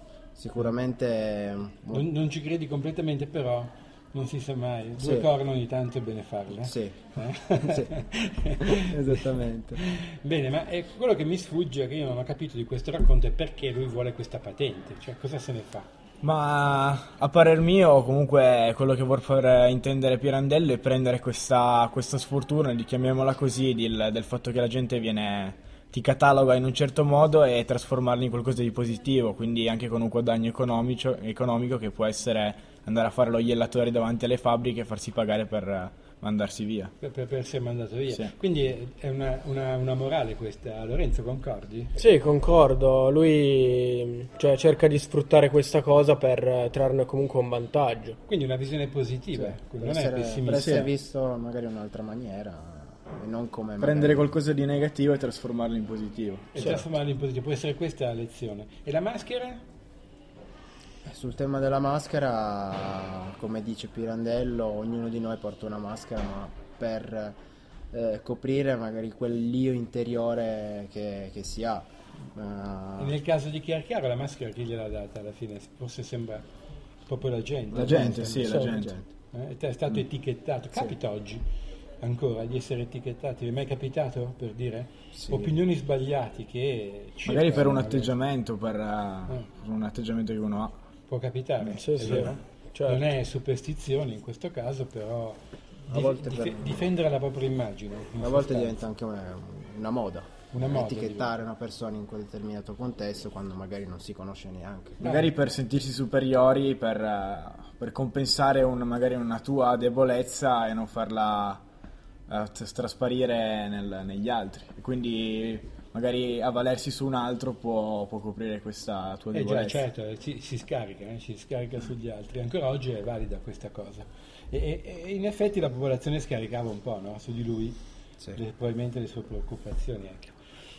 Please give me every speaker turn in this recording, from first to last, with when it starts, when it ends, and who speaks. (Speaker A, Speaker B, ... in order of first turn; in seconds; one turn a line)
Speaker A: 0.3-2.1
Speaker B: 1.9-9.2
Speaker A: 5.0-5.3
Speaker A: 6.6-7.0
Speaker A: 7.6-7.9
Speaker A: 8.6-9.8
Speaker B: 9.8-15.9
Speaker C: 16.2-36.9
Speaker B: 37.0-41.9
Speaker D: 42.0-48.2
Speaker B: 48.3-50.7
Speaker A: 49.4-54.3
Speaker C: 50.5-50.9
Speaker C: 53.8-56.8
Speaker B: 56.5-59.6
Speaker A: 61.0-67.3
Speaker A: 67.9-73.2
Speaker B: 73.0-76.4
Speaker B: 77.0-78.7
Speaker A: 77.7-79.1
Speaker C: 77.7-78.9
Speaker B: 79.3-81.4
Speaker B: 82.0-88.1
Speaker A: 85.1-85.5
Speaker C: 87.2-90.8
Speaker B: 91.1-98.8
Speaker C: 91.6-92.4
Speaker D: 91.8-93.0
Speaker A: 95.9-96.9
Speaker A: 98.2-105.0
Speaker B: 100.5-101.3
Speaker C: 105.0-111.6
Speaker B: 105.0-105.3
Speaker C: 112.3-119.8
Speaker B: 119.3-127.8
Speaker B: 128.3-130.3